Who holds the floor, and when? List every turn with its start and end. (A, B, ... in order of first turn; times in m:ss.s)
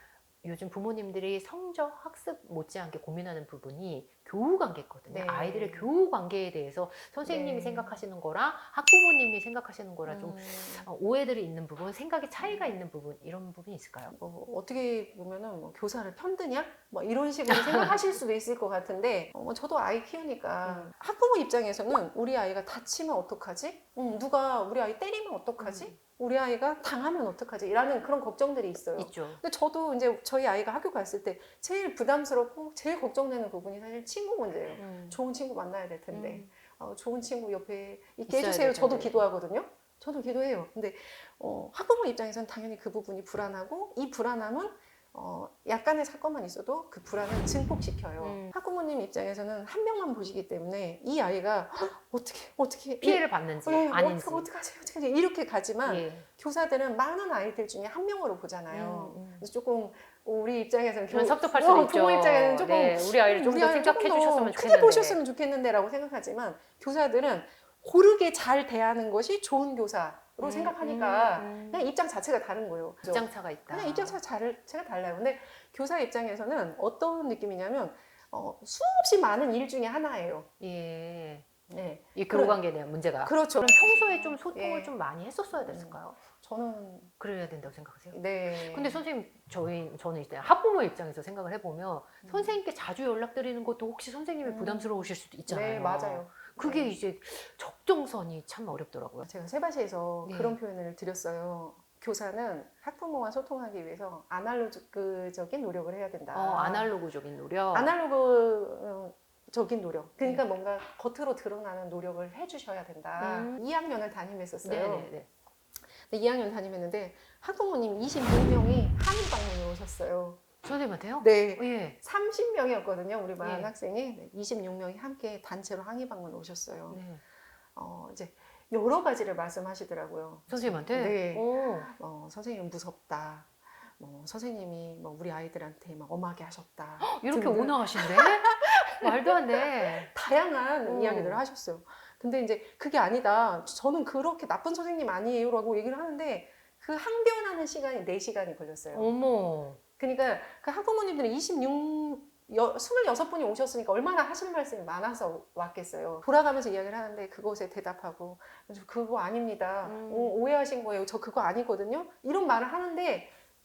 0:00.4-0:14.2 A
0:05.1-0:05.9 B
0:07.2-0:08.0 B
0:10.0-0:10.9 B
0:12.4-0:12.7 B
0:14.1-1:20.5 B
0:17.5-0:18.0 A
0:20.6-0:20.9 A
0:25.6-0:26.0 A
0:29.0-0:29.4 A
0:34.7-0:35.2 A
0:36.1-0:36.5 A
0:38.3-0:39.2 A
0:48.2-0:48.5 A
0:53.0-0:54.5 A
0:55.8-0:56.2 A
0:58.7-0:59.4 A
1:01.1-1:05.2 A
1:10.4-1:11.9 A
1:13.1-1:14.2 A
1:20.6-1:21.5 A
1:21.7-1:22.6 B
1:22.1-1:26.2 A
1:23.2-1:24.9 B
1:25.6-1:27.1 B
1:27.2-1:39.3 A
1:28.1-1:29.0 B
1:32.2-1:32.6 B
1:34.4-1:36.9 B
1:39.2-1:46.9 B
1:40.2-1:40.6 A
1:46.3-1:47.9 A
1:47.7-1:55.1 B
1:53.2-1:53.6 A
1:54.6-1:55.3 A
1:55.9-2:00.4 B
2:00.6-2:02.0 A
2:01.2-2:07.0 B
2:03.4-2:03.7 A
2:06.9-2:07.2 A
2:07.8-2:29.1 B
2:10.5-2:11.9 A
2:17.0-2:20.1 A
2:20.8-2:21.4 A
2:28.9-2:29.8 A
2:30.0-2:43.3 B
2:39.8-2:40.3 A